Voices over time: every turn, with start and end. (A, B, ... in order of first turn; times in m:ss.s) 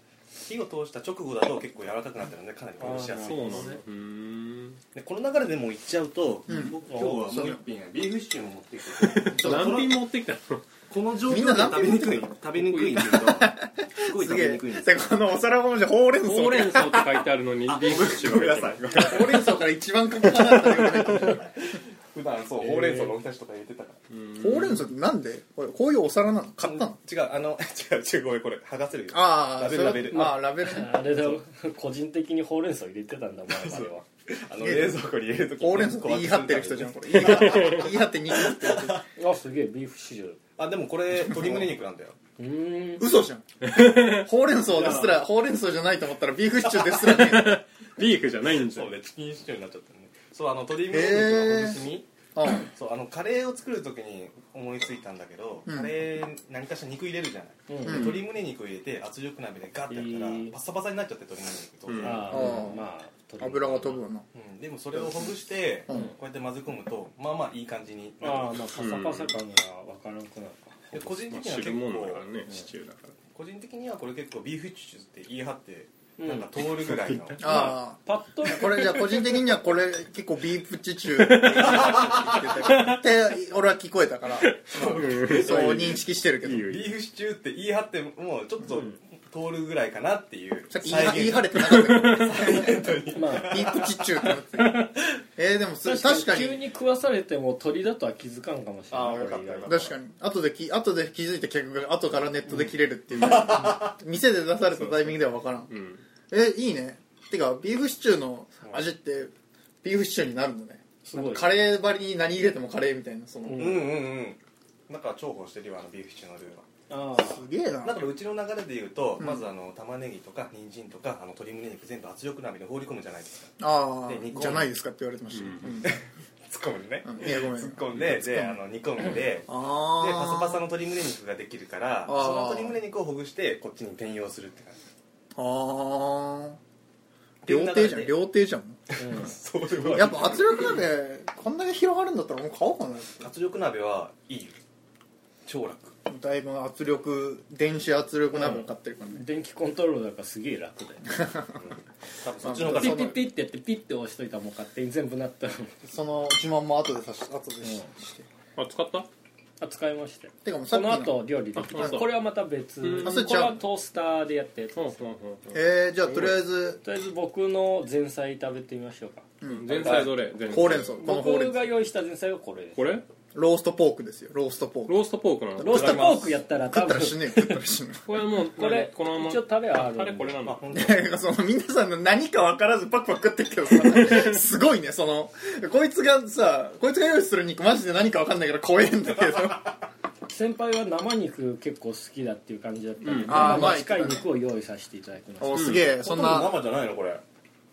0:00.4-0:03.8 A
0:02.8-0:03.8 B
0:03.2-0:04.8 C
0:04.9-0:10.0 A
0:06.5-0:07.6 D
0:09.0-0:10.6 C
0:10.9-0:15.2 A
0:11.3-0:12.4 D
0:12.6-0:13.2 C
0:13.0-0:17.1 D
0:16.2-0:18.8 C
0:17.7-0:19.6 A
0:18.9-0:21.5 D
0:20.6-0:21.4 C
0:21.4-0:24.0 A
0:22.6-0:23.1 B
0:24.1-0:24.9 C
0:24.4-0:27.0 D
0:26.6-0:30.4 A
0:29.1-0:31.3 D
0:29.8-0:34.0 B
0:33.5-0:39.0 A
0:34.6-0:35.0 D
0:35.6-0:39.0 D
0:37.2-0:37.9 C
0:39.1-0:40.4 B
0:40.6-0:42.2 A
0:41.3-0:41.6 D
0:42.4-0:43.2 B
0:43.0-0:47.6 D
0:43.6-0:44.3 C
0:44.7-0:45.2 B
0:46.8-0:48.9 C
0:48.4-1:02.5 A
0:50.9-0:52.7 D
0:57.7-0:58.2 B
0:57.9-0:58.2 D
0:59.9-1:00.5 B
1:01.9-1:02.4 C
1:02.0-1:04.0 B
1:02.3-1:02.8 D
1:03.4-1:04.2 D
1:04.3-1:08.6 A
1:08.2-1:10.6 B
1:08.8-1:09.4 C
1:10.9-1:12.2 A
1:11.3-1:13.1 C
1:13.3-1:17.7 A
1:16.2-1:19.5 B
1:17.4-1:26.8 D
1:21.2-1:23.0 C
1:21.7-1:22.4 A
1:24.4-1:26.9 C
1:24.7-1:26.0 A
1:26.6-1:34.1 A
1:30.7-1:32.8 D
1:31.5-1:32.4 C
1:33.1-1:33.8 B
1:33.3-1:36.6 D
1:34.6-1:34.9 C
1:35.8-1:39.9 B
1:38.9-1:39.9 A
1:39.6-1:45.7 D
1:43.2-1:43.9 A
1:44.8-1:45.1 C
1:45.7-1:46.0 C
1:46.3-1:49.3 D
1:49.8-1:53.9 D
1:51.0-1:51.6 B
1:53.4-1:54.0 B
1:53.5-1:56.6 A
1:56.9-1:57.4 B
1:57.1-1:58.0 D
1:57.8-2:04.7 A
2:03.6-2:05.9 D
2:05.3-2:05.7 C
2:05.8-2:14.8 A
2:07.0-2:08.5 D
2:09.5-2:10.6 D
2:12.0-2:12.8 D
2:15.3-2:16.6 D
2:17.4-2:18.2 A
2:17.4-2:18.8 D
2:18.9-2:20.8 A
2:19.0-2:19.3 B
2:19.9-2:23.3 D
2:23.2-2:24.6 A
2:25.4-2:25.9 A
2:26.1-2:29.2 D
2:28.3-2:31.3 B
2:31.2-2:31.5 D
2:31.6-2:33.1 A
2:32.4-2:33.2 D
2:32.6-2:35.7 B
2:35.8-2:38.3 D
2:38.6-2:39.1 C
2:39.6-2:45.0 B
2:40.4-2:42.1 D
2:41.6-2:42.2 C
2:42.8-2:43.3 C
2:43.0-2:43.6 D
2:44.8-2:45.6 C
2:45.5-2:46.8 D
2:46.8-2:49.3 B
2:49.4-2:51.7 D
2:49.5-2:51.0 C
2:49.7-2:50.1 A
2:50.7-2:53.0 B
2:52.8-2:53.0 C
2:53.3-2:55.0 D
2:54.9-2:56.4 C
2:55.6-2:57.6 B
2:55.6-2:56.1 D
2:56.7-2:58.1 D
2:58.1-3:00.6 C
2:58.5-3:00.4 B
3:00.4-3:01.1 A
3:00.7-3:09.8 D
3:03.9-3:04.4 C
3:10.3-3:15.8 B
3:13.0-3:13.8 C
3:13.2-3:14.3 D
3:15.4-3:16.6 D
3:15.5-3:15.8 C
3:15.6-3:17.2 A